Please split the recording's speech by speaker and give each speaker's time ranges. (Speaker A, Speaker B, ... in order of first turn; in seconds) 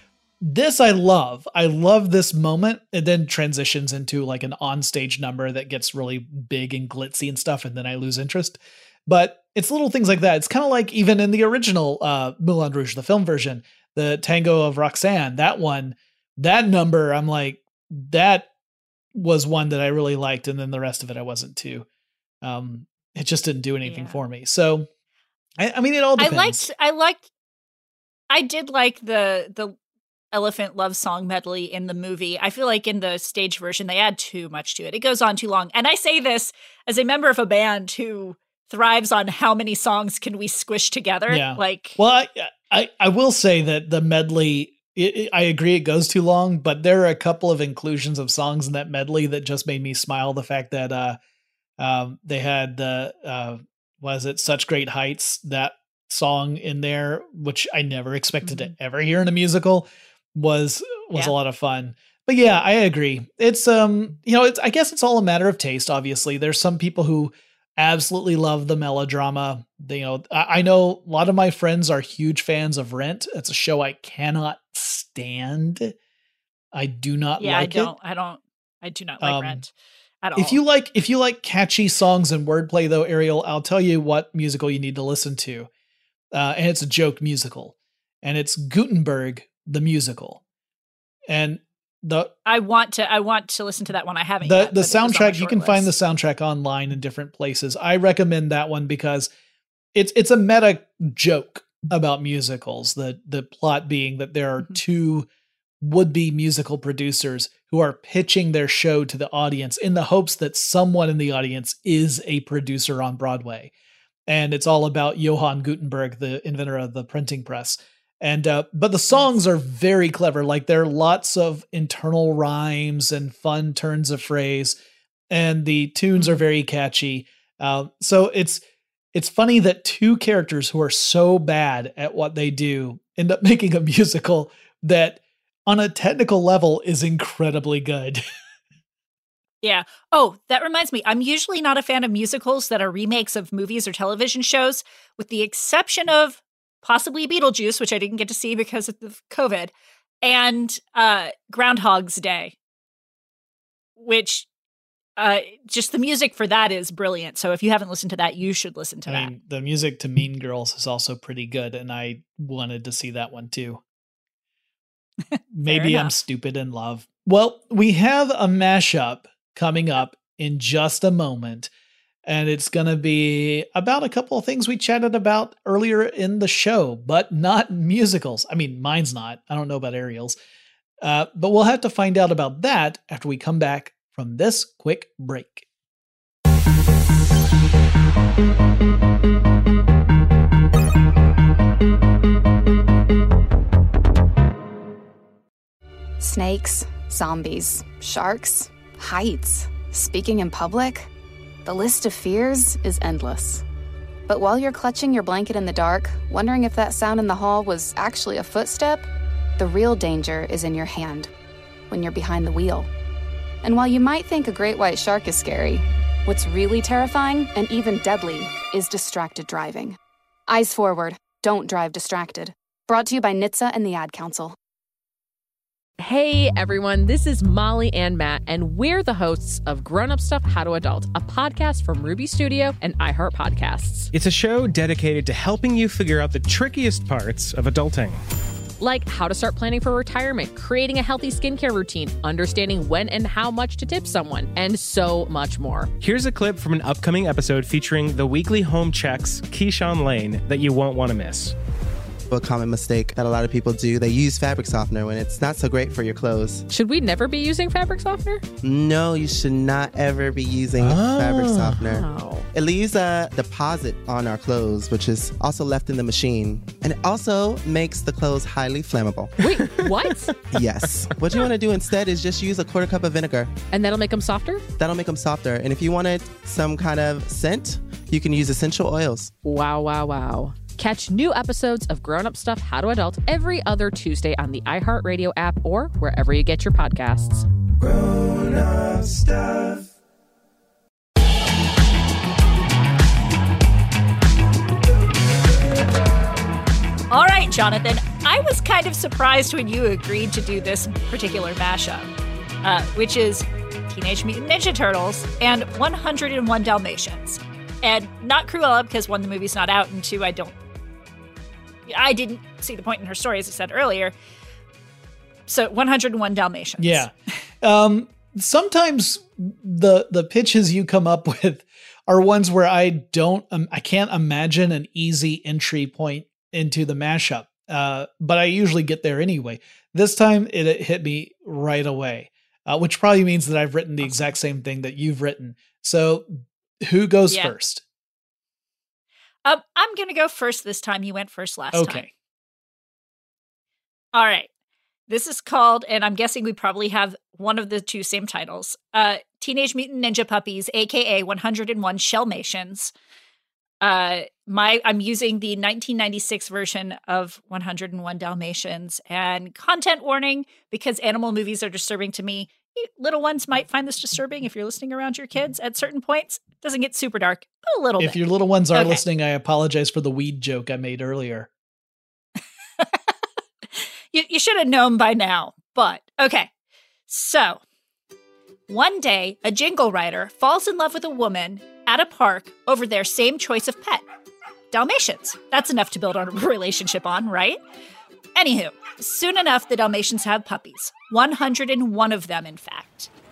Speaker A: 0.4-18.5, 19.1-21.9, 22.4-24.9, 25.6-26.7, 41.3-51.2, 51.8-75.9, 76.7-77.9, 79.2-79.6, 80.3-85.7, 86.3-90.4, 91.3-92.3, 94.4-99.3, 99.9-105.3, 105.8-113.7, 114.3-124.8, 125.3-128.6, 129.1-138.2, 159.1-163.8, 165.5-171.7, 172.2-180.4, 181.0-185.7, 260.8-261.4, 316.8-337.8, 341.7-342.1, 368.0-371.5
Speaker B: 23.8-24.2, 26.2-27.2, 28.3-29.8, 30.3-42.0, 58.4-58.7, 77.4-80.6, 92.5-95.9, 126.2-126.4, 139.6-149.7, 150.2-152.5, 154.0-154.5, 155.2-159.3, 165.6-166.1, 297.1-302.1, 302.6-310.5, 311.9-314.1, 315.5-317.1, 334.0-334.4, 339.4-342.1, 344.1-344.5, 345.1-352.9, 353.8-368.2, 368.7-369.0, 373.8-376.5, 377.1-377.6, 378.7-384.0, 384.7-387.6, 388.3-393.1
Speaker C: 196.2-201.1, 201.6-203.6, 204.3-209.1, 209.6-211.3, 211.9-212.9, 213.6-220.0, 220.5-224.6
Speaker D: 226.0-234.1, 238.8-245.9, 256.7-258.4, 261.6-262.5, 269.4-270.3, 273.7-274.6, 279.4-287.4
Speaker E: 234.1-238.2, 246.0-251.5
Speaker F: 252.3-256.6, 258.6-269.9, 270.5-273.6, 274.8-279.3